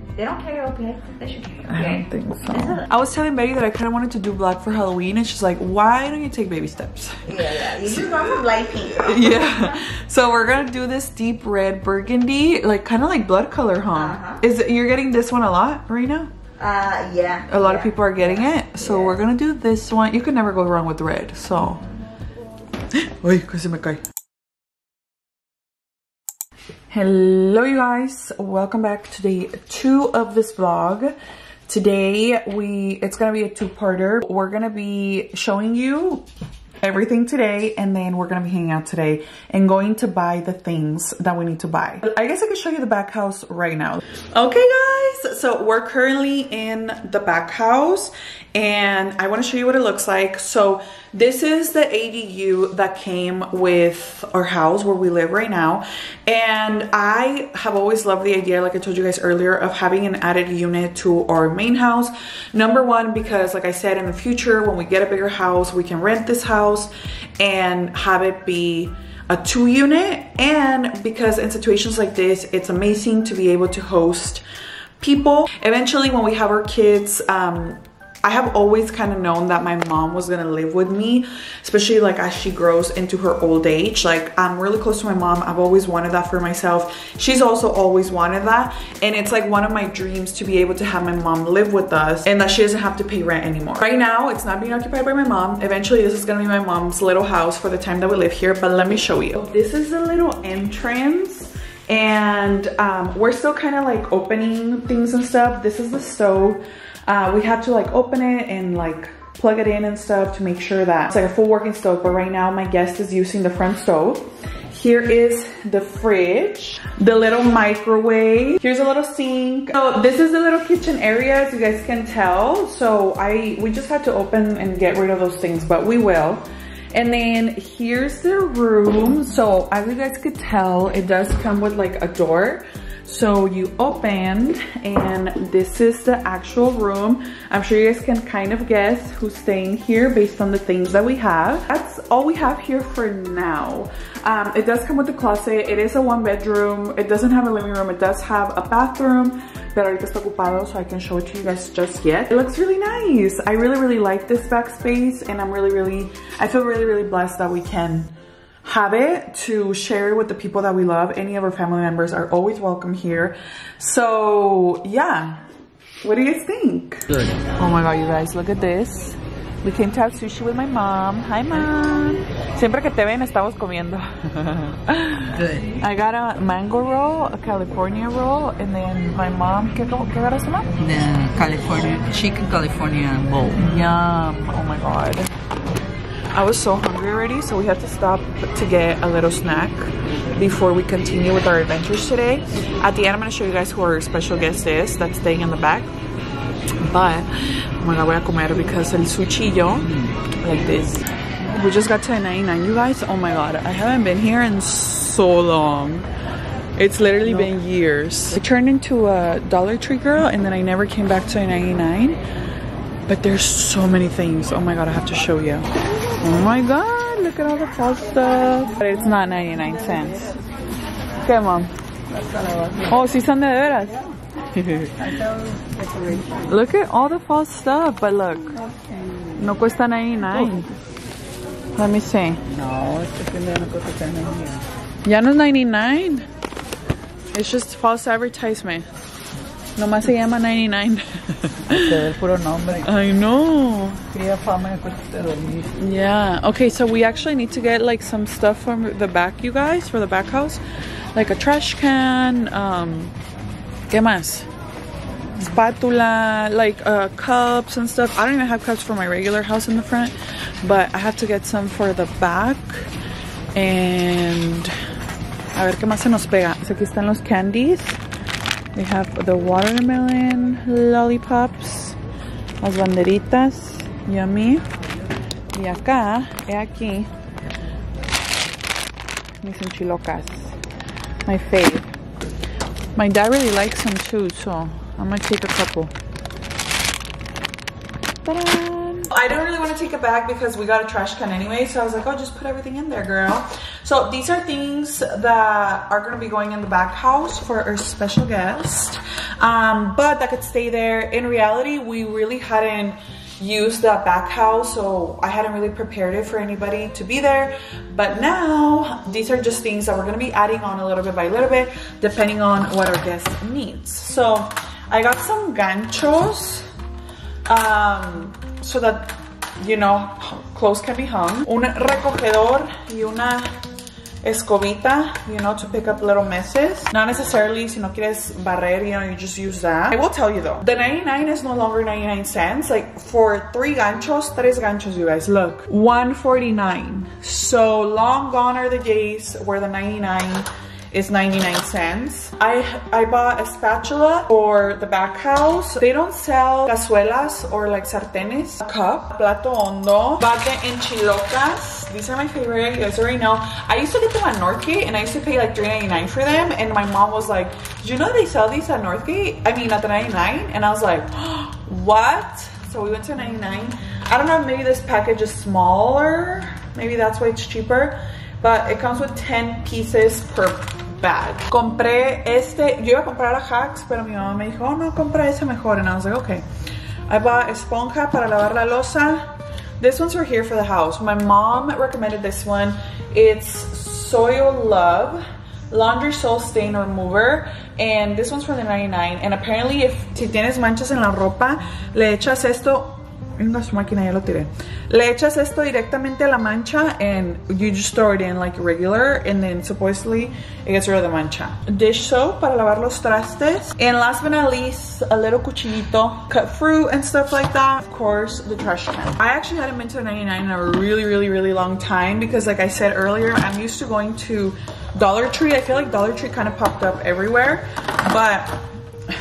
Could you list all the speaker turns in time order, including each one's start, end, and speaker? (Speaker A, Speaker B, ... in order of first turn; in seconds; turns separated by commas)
Speaker A: 0.2-2.9, Speaker B: 1.7-16.3, Speaker A: 7.3-9.5, Speaker A: 13.9-14.4, Speaker A: 16.6-19.2, Speaker B: 17.5-21.8, Speaker B: 22.9-24.0, Speaker B: 26.9-31.1, Speaker B: 31.7-36.3, Speaker B: 36.8-74.4, Speaker B: 75.0-158.1, Speaker B: 158.7-165.4, Speaker B: 166.0-181.0, Speaker C: 175.4-175.7, Speaker C: 180.8-183.5, Speaker B: 183.4-185.3, Speaker B: 186.3-195.9, Speaker B: 196.8-206.1, Speaker B: 206.8-212.2, Speaker B: 213.1-215.7, Speaker B: 216.2-220.3, Speaker B: 221.2-221.7, Speaker C: 222.1-223.0, Speaker B: 222.8-225.1, Speaker C: 225.0-226.4, Speaker B: 226.5-228.6, Speaker B: 229.4-230.7, Speaker B: 231.8-232.6, Speaker C: 232.5-234.6, Speaker B: 235.1-236.3, Speaker B: 237.3-238.9, Speaker B: 239.8-242.1, Speaker C: 241.7-242.9, Speaker B: 242.7-244.1, Speaker C: 244.1-245.8, Speaker B: 245.8-250.6, Speaker B: 251.1-253.2, Speaker B: 253.9-254.5, Speaker B: 255.4-262.9, Speaker B: 263.5-264.8, Speaker B: 265.5-268.0, Speaker B: 268.7-272.0, Speaker B: 272.6-274.6, Speaker B: 275.5-277.1, Speaker B: 279.4-280.6, Speaker B: 281.3-281.9, Speaker B: 283.0-285.9, Speaker B: 288.3-316.7, Speaker B: 317.5-323.6, Speaker B: 324.2-376.4, Speaker B: 377.1-379.3, Speaker B: 379.8-418.6